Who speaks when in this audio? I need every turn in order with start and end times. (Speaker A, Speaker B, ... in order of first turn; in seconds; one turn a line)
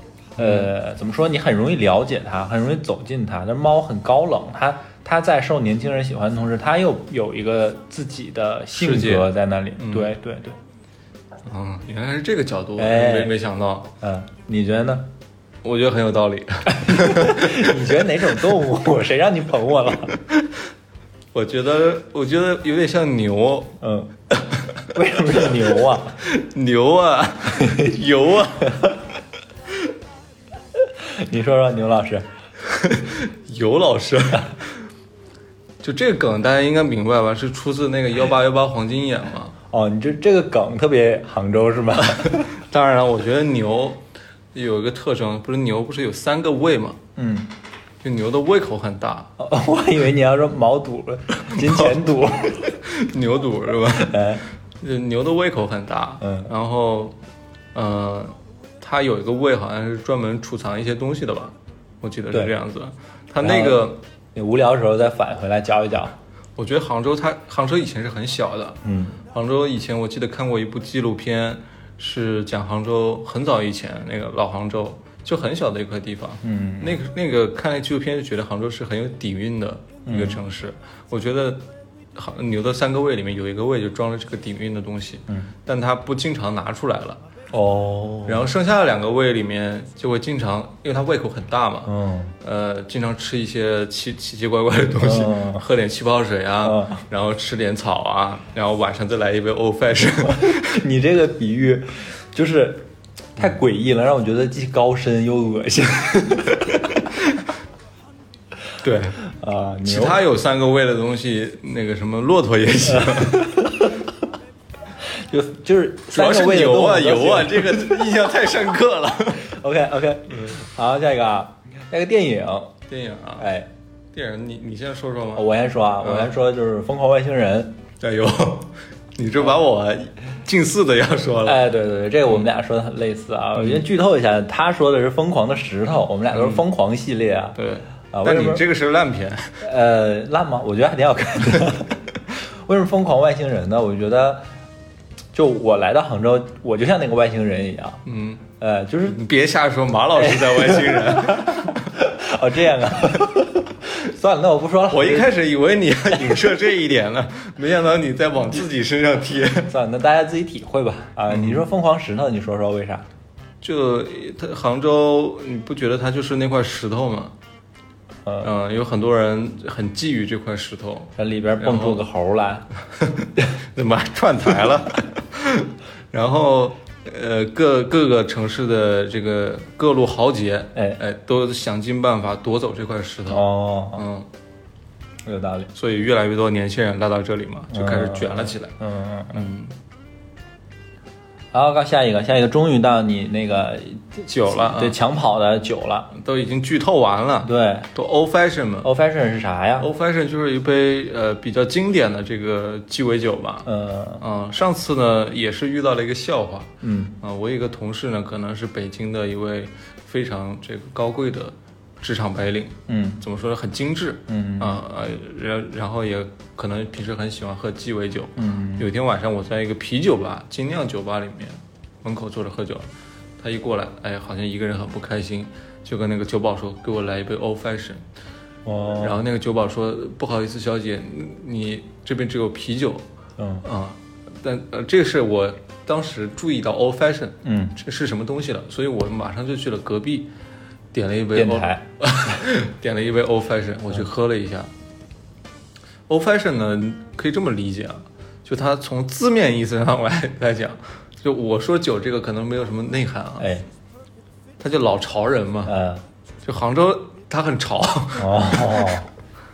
Speaker A: 0.4-0.7
Speaker B: 0.4-10.6
Speaker A: 8.7-10.1
Speaker A: 11.4-13.9
Speaker B: 12.8-13.4
Speaker B: 14.0-15.1
Speaker A: 15.6-17.8
Speaker B: 16.7-20.2
Speaker A: 21.3-23.8
Speaker B: 23.8-24.1
Speaker A: 24.4-24.8
Speaker B: 24.9-26.2
Speaker A: 26.2-28.9
Speaker B: 27.5-27.9
Speaker B: 31.0-32.2
Speaker A: 32.6-34.8
Speaker A: 35.8-39.5
Speaker B: 39.7-42.5
Speaker A: 42.2-44.0
Speaker A: 44.5-47.0
Speaker B: 47.1-47.5
Speaker A: 48.0-49.3
Speaker B: 49.4-52.6
Speaker A: 51.4-52.0
Speaker A: 52.5-57.1
Speaker B: 53.9-54.4
Speaker B: 56.2-56.5
Speaker A: 57.7-64.0
Speaker B: 63.4-66.2
Speaker A: 66.6-81.6
Speaker B: 68.8-69.2
Speaker B: 76.4-77.0
Speaker B: 80.0-80.4
Speaker A: 82.1-87.2
Speaker B: 87.5-88.4
Speaker A: 88.2-100.8
Speaker B: 91.9-92.3
Speaker B: 95.0-95.6
Speaker B: 96.6-97.0
Speaker B: 100.3-107.0
Speaker A: 108.8-109.2
Speaker B: 109.2-110.2
Speaker A: 109.8-113.5
Speaker B: 112.8-114.1
Speaker B: 115.0-118.3
Speaker A: 116.1-119.5
Speaker B: 119.4-122.7
Speaker A: 120.3-120.6
Speaker A: 122.9-123.5
Speaker B: 123.4-123.7
Speaker A: 124.1-126.3
Speaker B: 125.3-127.8
Speaker A: 128.0-131.6
Speaker B: 131.4-137.6
Speaker A: 133.6-133.8
Speaker A: 136.3-136.6
Speaker A: 137.6-139.6
Speaker B: 138.1-138.6
Speaker B: 139.6-144.5
Speaker B: 145.3-148.0
Speaker A: 148.0-148.4
Speaker B: 148.6-149.2
Speaker A: 149.0-151.9
Speaker B: 150.1-155.3
Speaker A: 154.9-159.7
Speaker B: 156.1-156.5
Speaker B: 159.7-163.1
Speaker A: 161.3-161.6
Speaker A: 163.6-167.3
Speaker A: 168.4-172.0
Speaker B: 171.2-172.7
Speaker A: 173.0-184.3
Speaker B: 180.7-181.0
Speaker B: 183.3-184.0
Speaker B: 185.2-185.7
Speaker A: 185.7-188.8
Speaker B: 187.7-189.5
Speaker A: 189.3-189.7
Speaker B: 191.5-196.1
Speaker A: 194.3-195.0
Speaker A: 196.1-198.9
Speaker B: 197.4-197.9
Speaker B: 198.8-199.9
Speaker A: 199.8-228.0
Speaker B: 203.6-204.2
Speaker B: 206.8-207.2
Speaker B: 212.9-213.2
Speaker B: 214.3-214.8
Speaker B: 218.4-218.9
Speaker B: 228.6-229.2
Speaker A: 229.0-233.0
Speaker B: 233.4-233.6
Speaker A: 233.6-240.3
Speaker B: 237.4-237.8
Speaker A: 240.9-244.7
Speaker B: 241.3-241.8
Speaker A: 246.1-253.5
Speaker B: 253.4-253.7
Speaker A: 254.6-255.8
Speaker B: 255.7-256.0
Speaker A: 256.4-258.9
Speaker B: 258.2-259.1